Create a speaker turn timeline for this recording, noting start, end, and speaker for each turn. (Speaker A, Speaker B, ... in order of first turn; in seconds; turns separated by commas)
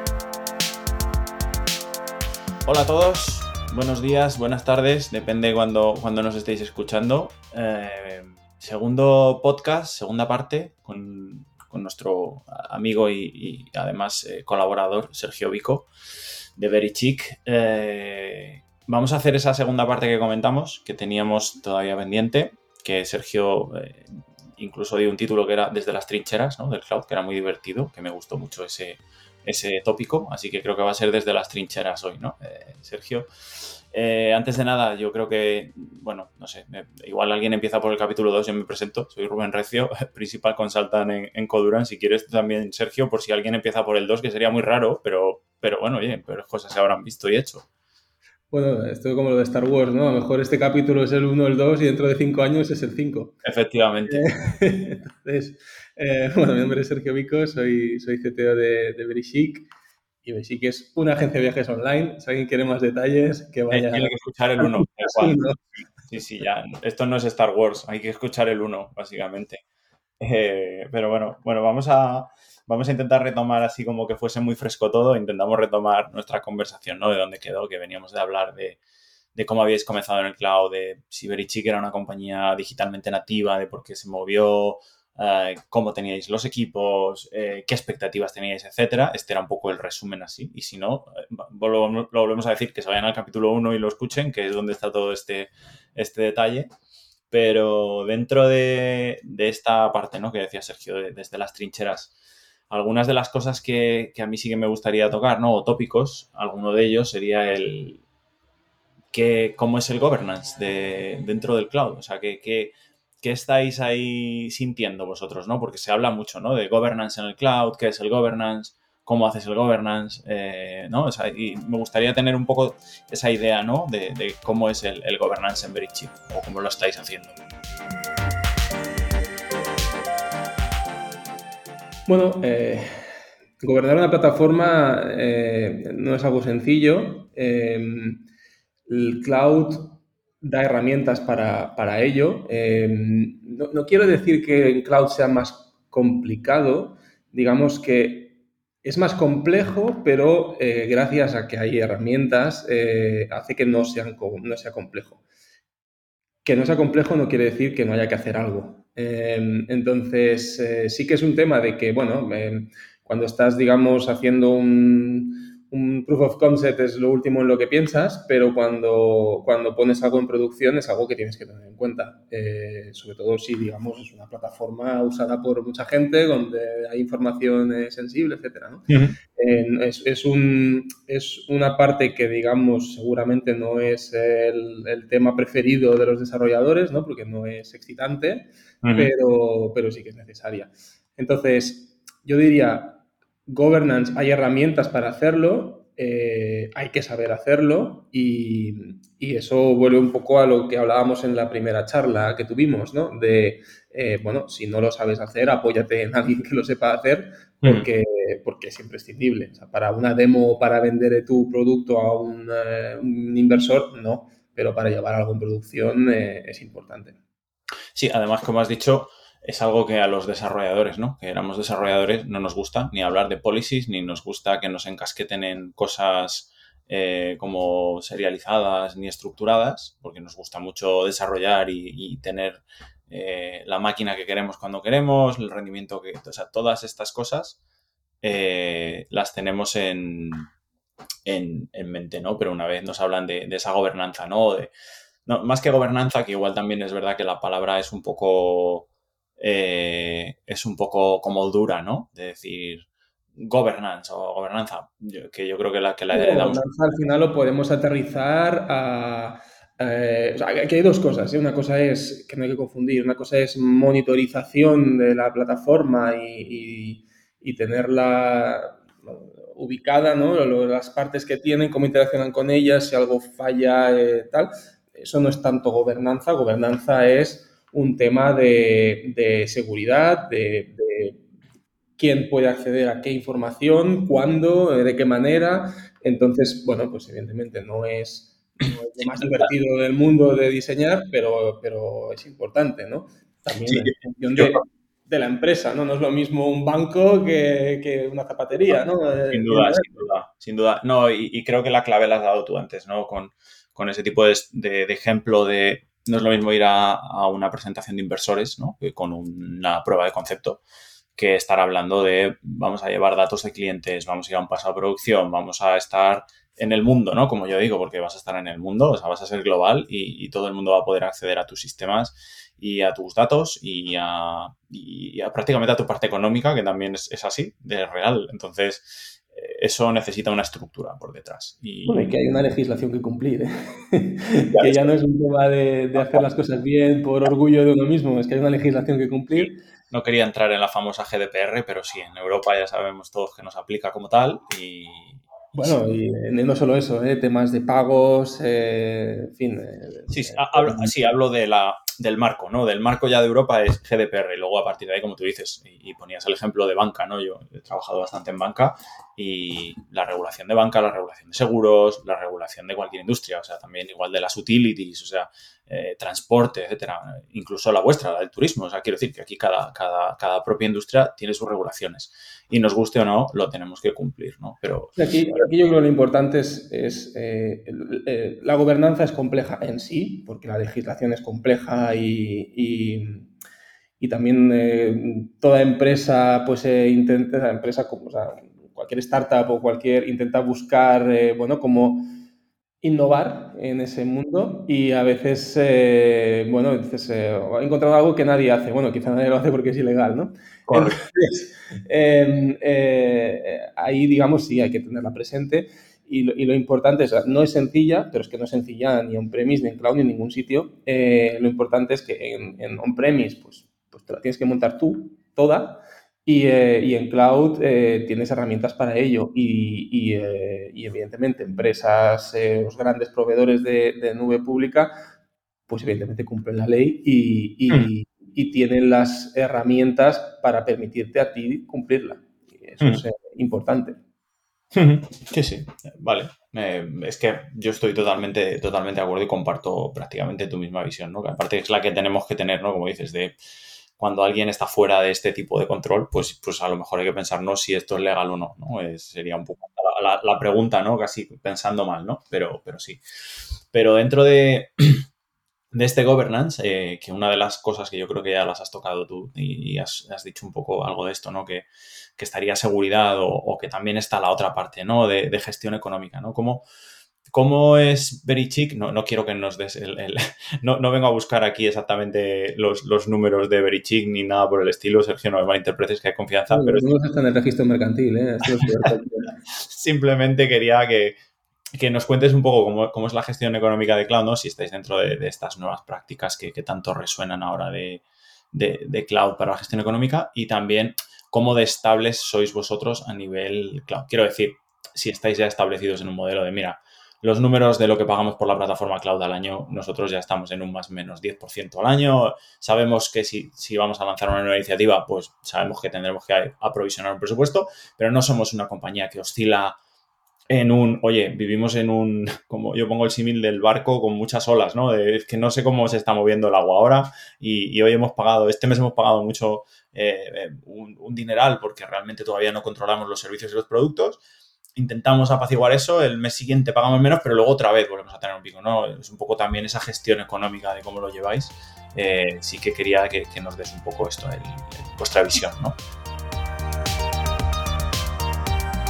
Speaker A: 2.6-15.9, Speaker A: 16.6-47.7, Speaker B: 48.5-53.4, Speaker A: 53.4-54.2, Speaker B: 54.1-59.7, Speaker B: 60.2-65.6, Speaker A: 63.7-65.4, Speaker A: 66.1-69.6, Speaker A: 70.2-78.8, Speaker A: 79.3-96.7, Speaker A: 97.3-102.1, Speaker A: 102.7-108.0, Speaker A: 109.1-127.4, Speaker B: 132.1-133.1, Speaker B: 133.6-138.2, Speaker B: 138.9-155.2, Speaker B: 156.4-217.2, Speaker A: 178.9-179.2, Speaker A: 188.8-189.1, Speaker A: 217.9-237.6, Speaker A: 238.2-240.5, Speaker A: 241.2-244.7, Speaker A: 245.3-248.9, Speaker A: 249.4-256.6, Speaker B: 256.1-281.2, Speaker B: 282.0-299.9, Speaker A: 293.7-294.6, Speaker A: 299.3-310.6, Speaker A: 311.2-332.2, Speaker B: 331.9-339.6, Speaker A: 334.5-334.9, Speaker A: 336.0-336.3, Speaker A: 339.3-345.8, Speaker B: 345.6-350.9, Speaker A: 350.1-375.5, Speaker B: 375.0-383.3, Speaker B: 384.0-392.2, Speaker B: 392.8-424.9, Speaker A: 400.7-401.0, Speaker B: 425.7-434.0, Speaker A: 434.7-443.4, Speaker A: 444.0-453.0, Speaker A: 453.7-455.0, Speaker A: 455.7-466.6, Speaker A: 467.3-476.9, Speaker B: 476.5-479.3, Speaker A: 479.5-481.1, Speaker A: 481.8-509.8, Speaker A: 510.5-524.2, Speaker A: 524.8-535.8